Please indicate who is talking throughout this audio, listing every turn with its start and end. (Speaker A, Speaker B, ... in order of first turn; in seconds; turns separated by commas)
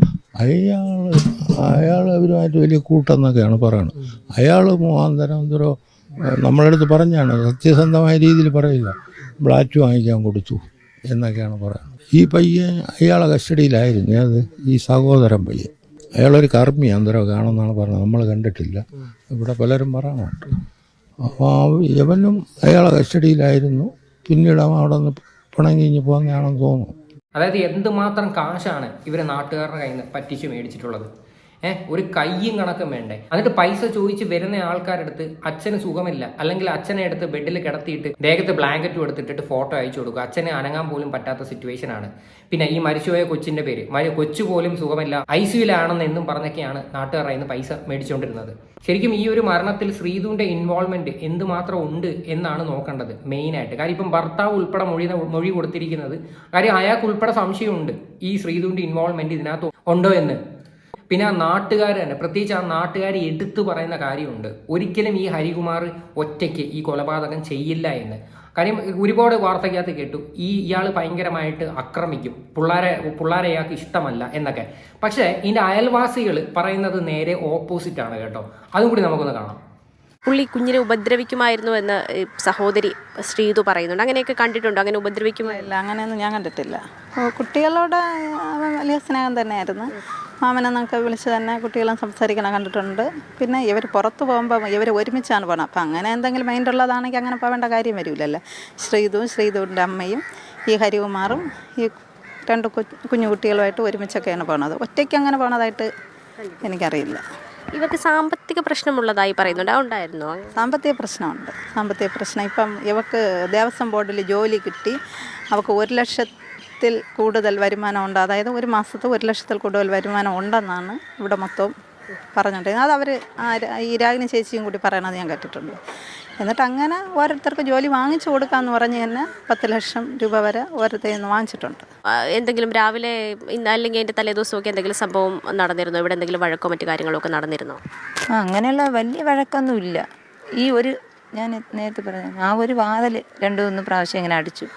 Speaker A: 0.3-5.7, Speaker A: 6.3-20.6, Speaker A: 21.2-26.9, Speaker B: 27.3-31.1, Speaker B: 31.6-60.4, Speaker B: 61.1-79.6, Speaker C: 80.2-85.6, Speaker D: 85.4-88.0, Speaker D: 88.5-89.9, Speaker D: 90.4-101.9, Speaker D: 102.5-105.9, Speaker D: 106.6-107.2, Speaker C: 107.7-110.5, Speaker D: 110.6-115.0, Speaker D: 115.5-116.3, Speaker D: 116.8-121.7, Speaker D: 122.3-125.8, Speaker D: 126.4-131.8, Speaker C: 132.3-137.8, Speaker E: 138.4-140.0, Speaker E: 141.4-144.6